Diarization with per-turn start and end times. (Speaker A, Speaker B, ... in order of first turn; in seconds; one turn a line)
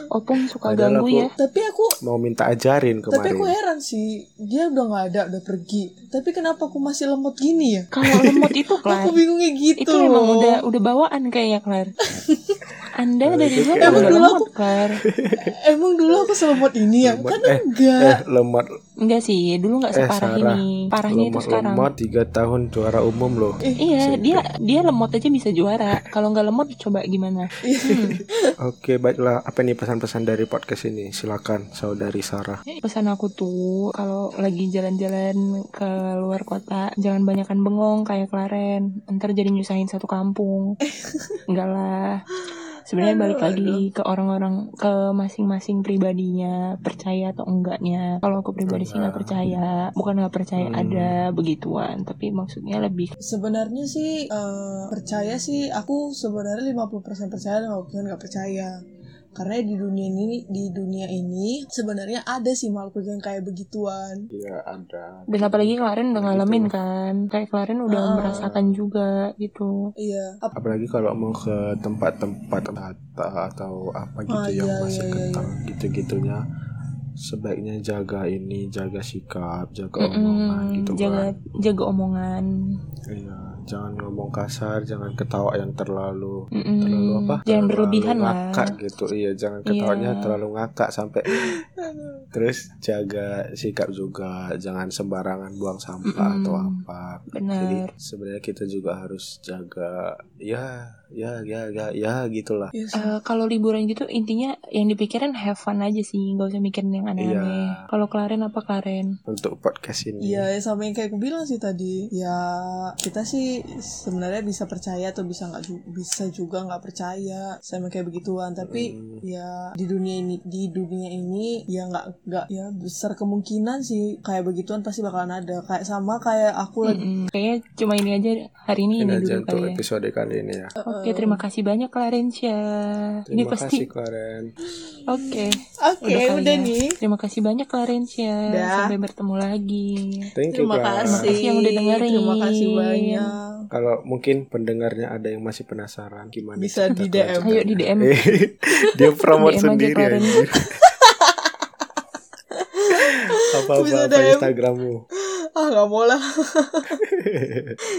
Speaker A: 0.1-1.3
Speaker B: 0.6-1.3
Speaker C: 1.4-1.9
Speaker B: 2.0-3.5
Speaker C: 3.1-10.6
Speaker A: 7.9-9.2
Speaker A: 9.8-11.9
Speaker C: 12.1-12.7
Speaker A: 13.0-15.0
Speaker B: 13.2-14.3
Speaker C: 13.8-14.5
Speaker B: 15.0-15.5
Speaker C: 15.3-18.2
Speaker B: 17.0-18.6
Speaker A: 19.0-21.9
Speaker B: 19.9-24.4
Speaker C: 23.6-23.9
Speaker A: 23.8-28.2
Speaker C: 27.6-28.5
Speaker B: 28.6-32.6
Speaker A: 32.8-40.6
Speaker C: 40.9-41.4
Speaker A: 41.5-42.2
Speaker C: 42.4-43.9
Speaker A: 42.9-53.1
Speaker B: 48.7-49.4
Speaker B: 50.6-51.2
Speaker C: 53.2-58.7
Speaker C: 59.3-64.3
Speaker B: 64.3-66.7
Speaker A: 65.3-69.7
Speaker C: 67.9-68.5
Speaker B: 68.2-68.8
Speaker C: 70.0-70.5
Speaker B: 70.5-76.4
Speaker C: 74.3-75.5
Speaker B: 77.2-81.4
Speaker A: 80.0-82.5
Speaker B: 83.1-91.5
Speaker A: 86.5-88.7
Speaker A: 89.7-90.3
Speaker C: 91.4-92.2
Speaker B: 92.3-102.7
Speaker A: 96.1-96.8
Speaker A: 97.3-97.9
Speaker C: 102.7-103.1
Speaker A: 103.0-109.1
Speaker B: 107.2-107.8
Speaker B: 109.3-110.5
Speaker C: 110.2-127.0
Speaker B: 118.6-119.2
Speaker A: 126.8-129.8
Speaker B: 129.0-130.7
Speaker C: 130.8-131.4
Speaker A: 130.8-133.8
Speaker B: 133.3-134.5
Speaker A: 135.1-140.3
Speaker C: 135.2-136.9
Speaker C: 138.5-138.9
Speaker B: 140.3-141.3
Speaker C: 140.5-143.6
Speaker A: 141.1-143.3
Speaker B: 143.7-150.8
Speaker C: 146.6-147.6
Speaker A: 147.4-148.1
Speaker A: 149.4-150.4
Speaker C: 150.8-151.7
Speaker C: 152.6-154.5
Speaker B: 153.5-155.0
Speaker C: 155.6-157.0
Speaker B: 157.0-157.8